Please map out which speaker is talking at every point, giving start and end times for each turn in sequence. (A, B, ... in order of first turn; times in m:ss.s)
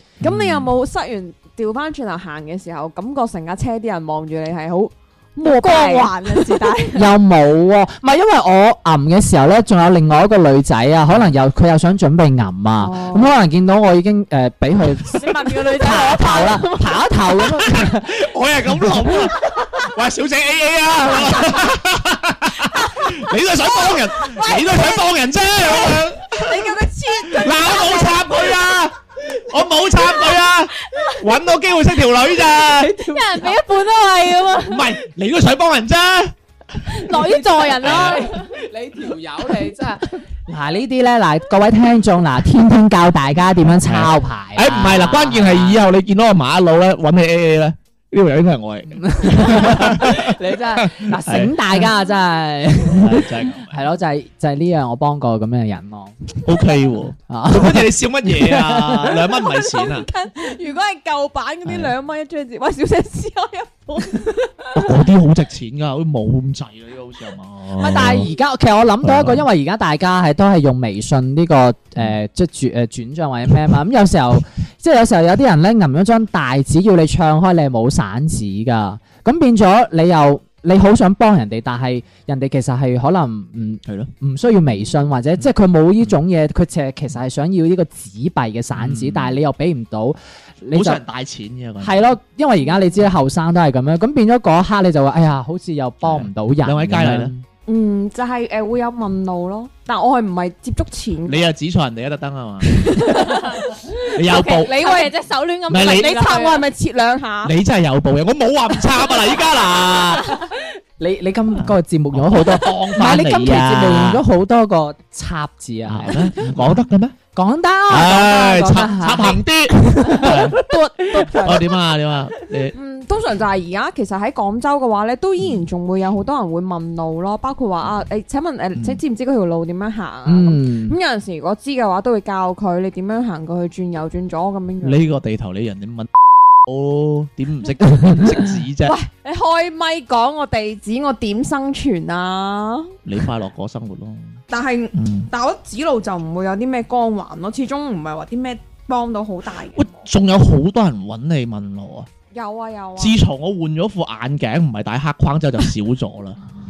0:00.2-0:00.7 A
0:00.2-0:06.8 B
0:05.4-0:07.1 C
0:06.9-0:19.3 D
0:12.8-0:13.4 B
0:15.1-0:17.3 C
0:17.7-0:26.7 A
0:24.3-0:25.1 B
0:25.6-0:28.6 B
0:27.3-0:33.0 A
0:30.9-0:31.2 C
0:32.6-0:33.6 D
0:33.0-0:34.9 C
0:34.6-0:36.3 A
0:36.9-0:38.5 C
0:37.1-0:45.8 D
0:37.8-0:38.2 A
0:43.8-0:51.9 A
0:49.0-0:56.5 D
0:52.8-0:53.8 A
0:56.4-1:00.1 A
0:57.3-0:59.3 D
0:59.4-1:04.7 B
1:01.6-1:01.9 A
1:04.7-1:08.3 A
1:07.8-1:31.0 D
1:09.0-1:09.4 A
1:23.8-1:24.1 A
1:28.7-1:29.4 A
1:30.7-1:32.1 A
1:31.8-1:37.4 D
1:36.0-1:37.3 A
1:37.7-1:41.5 B
1:41.2-1:43.0 A
1:42.8-1:43.6 B
1:43.1-1:43.7 C
1:44.1-1:44.7 A
1:44.2-1:46.6 C
1:44.3-1:45.2 B
1:45.7-1:46.2 A
1:45.7-1:47.5 B
1:47.4-1:50.4 A
1:51.0-1:56.8 D
1:51.6-1:54.2 A
1:55.9-1:57.2 A
1:57.3-2:01.6 D
1:57.9-2:00.6 A
2:00.2-2:01.6 B
2:01.2-2:02.7 A
2:02.7-2:15.1 B
2:10.2-2:11.0 D
2:14.8-2:16.1 A
2:16.6-2:18.9 A
2:17.9-2:18.4 D
2:18.8-2:22.9 B
2:23.0-2:24.4 A
2:24.5-2:30.0 B
2:24.9-2:25.3 A
2:29.7-2:32.1 A
2:32.3-2:33.2 B
2:33.0-2:36.4 A